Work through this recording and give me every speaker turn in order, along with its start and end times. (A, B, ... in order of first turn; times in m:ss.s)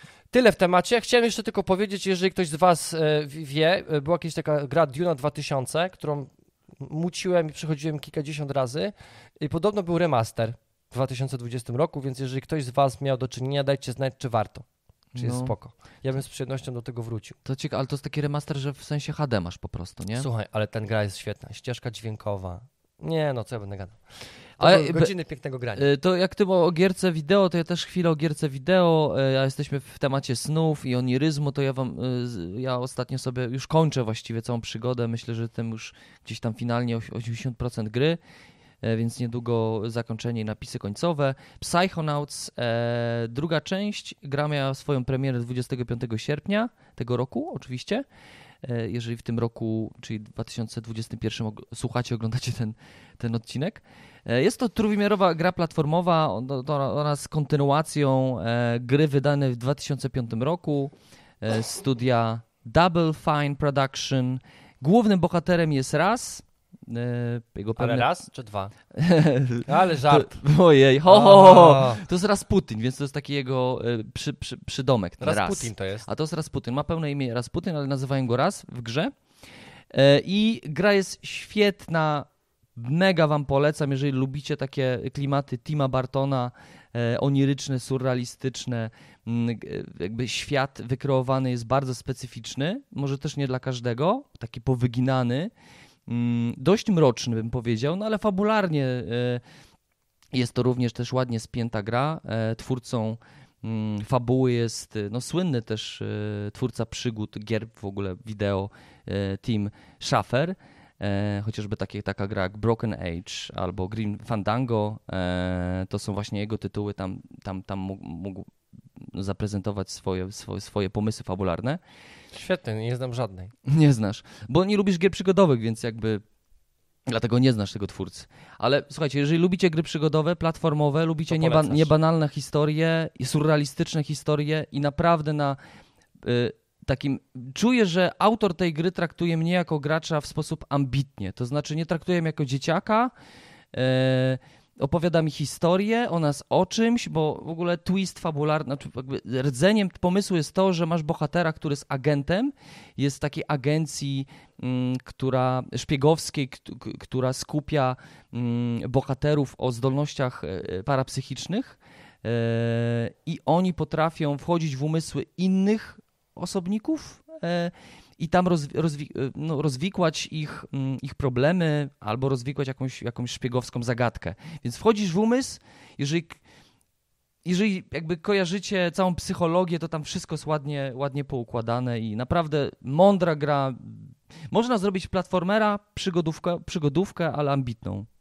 0:00.3-0:17.4 A
0:15.1-0:15.6 B
0:17.4-0:20.3 B
0:20.2-0:24.0 A
0:24.6-0:25.2 B
0:24.6-0:25.8 A
0:25.8-0:38.2 B
0:38.8-0:48.0 B
0:48.6-1:08.1 B
1:07.8-1:08.7 A
1:08.9-1:19.1 B
1:09.7-1:10.4 A
1:11.1-1:12.0 A
1:15.2-1:16.1 A
1:19.9-1:35.5 B
1:36.1-1:39.4 B
1:40.3-2:01.8 B
2:02.3-2:03.5 A
2:03.6-2:06.2 B
2:07.1-2:15.6 B
2:11.3-2:11.9 A
2:16.2-2:23.1 B
2:23.7-2:56.4 B
2:57.4-3:08.1 B